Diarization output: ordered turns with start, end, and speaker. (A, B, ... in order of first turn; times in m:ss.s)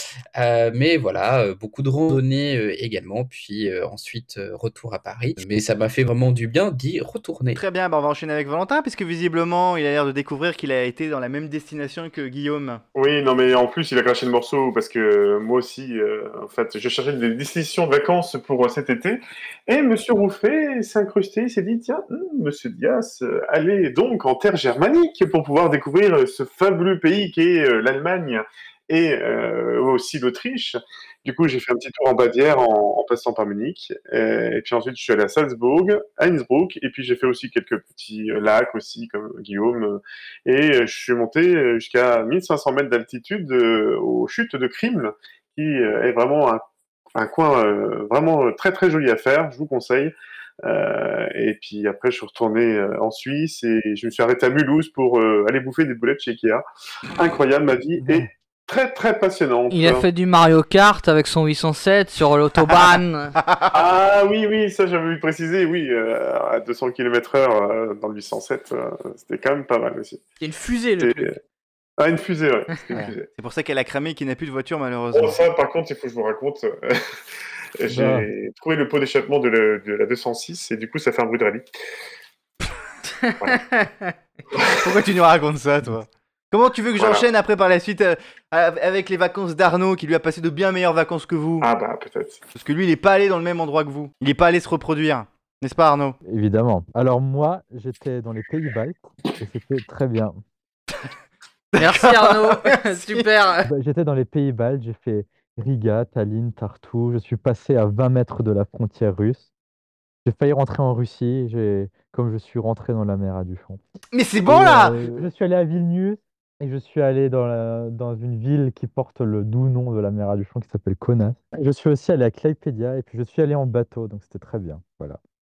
0:00.4-0:07.6 A
0:07.5-0:12.8 B
0:12.9-0:46.6 C
0:47.2-0:50.1 C
0:50.6-1:00.0 C
0:58.0-0:58.3 D
0:59.7-1:03.4 E
1:03.4-1:03.7 B
1:03.7-1:10.2 C
1:10.4-1:11.3 E
1:11.0-1:11.3 C
1:12.0-1:13.3 C
1:12.9-1:15.4 B
1:15.1-1:17.0 C
1:17.8-1:21.7 C
1:17.9-1:18.3 D
1:23.0-1:24.1 E
1:24.8-1:31.7 B
1:27.0-1:27.3 C
1:31.6-1:32.4 C
1:32.5-1:36.2 B
1:36.2-1:40.4 D
1:41.7-1:43.2 B
1:41.8-1:43.7 E
1:43.7-1:49.5 D
1:50.2-1:53.8 D
1:54.1-1:55.2 B
1:54.4-2:05.2 D